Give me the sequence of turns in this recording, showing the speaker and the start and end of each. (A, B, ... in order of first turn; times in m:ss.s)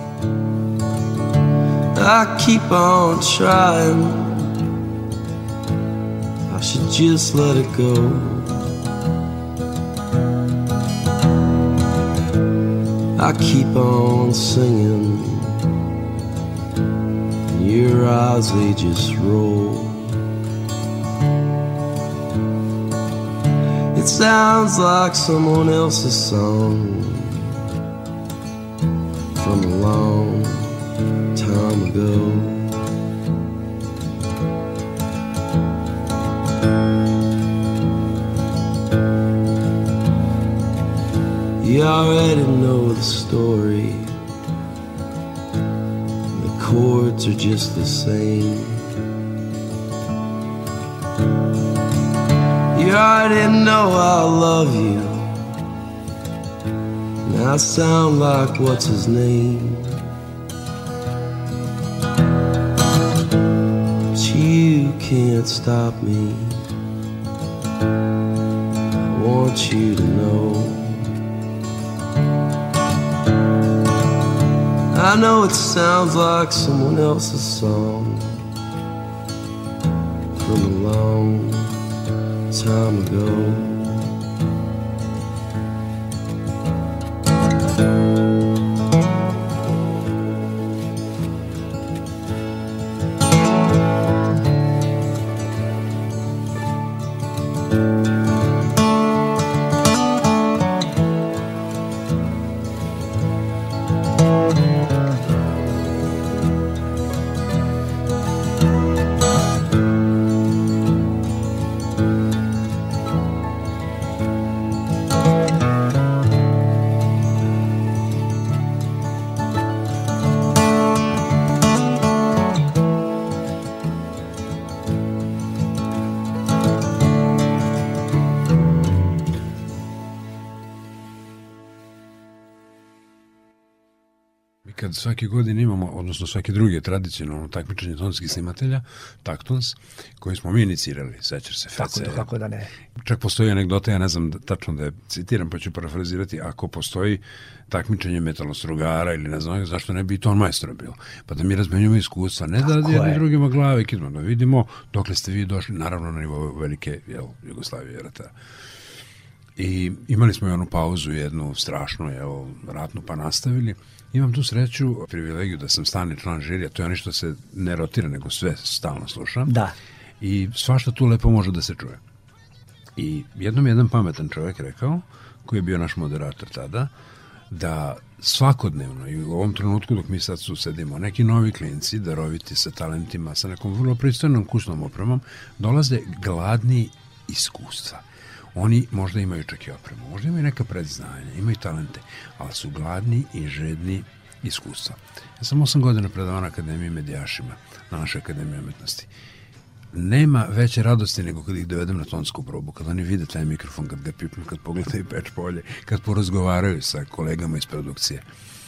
0:01.9-0:04.5 A
0:06.5-0:08.6 A
0:13.2-0:15.6 A
0:17.5-0:20.2 A
0:23.9-0:27.5 A
0:29.4-0:30.8 A
0:31.4-0:32.7 A
0:41.6-0:44.2 A
0:46.3-0:48.8 A
0:52.7-0:55.4 A
0:57.2-1:00.0 A
1:04.2-1:06.6 A
1:09.0-1:11.1 A
1:14.9-1:18.4 A
1:20.4-1:21.7 A
1:22.5-1:24.1 A
2:14.6-2:22.3 B
2:21.8-2:22.7 C
2:23.0-2:38.3 B
2:32.6-2:33.2 C
2:39.6-2:49.6 B
2:49.5-2:49.8 C
2:50.2-2:52.0 B
2:53.0-2:56.9 B
2:57.5-3:19.1 B
3:19.9-3:28.2 B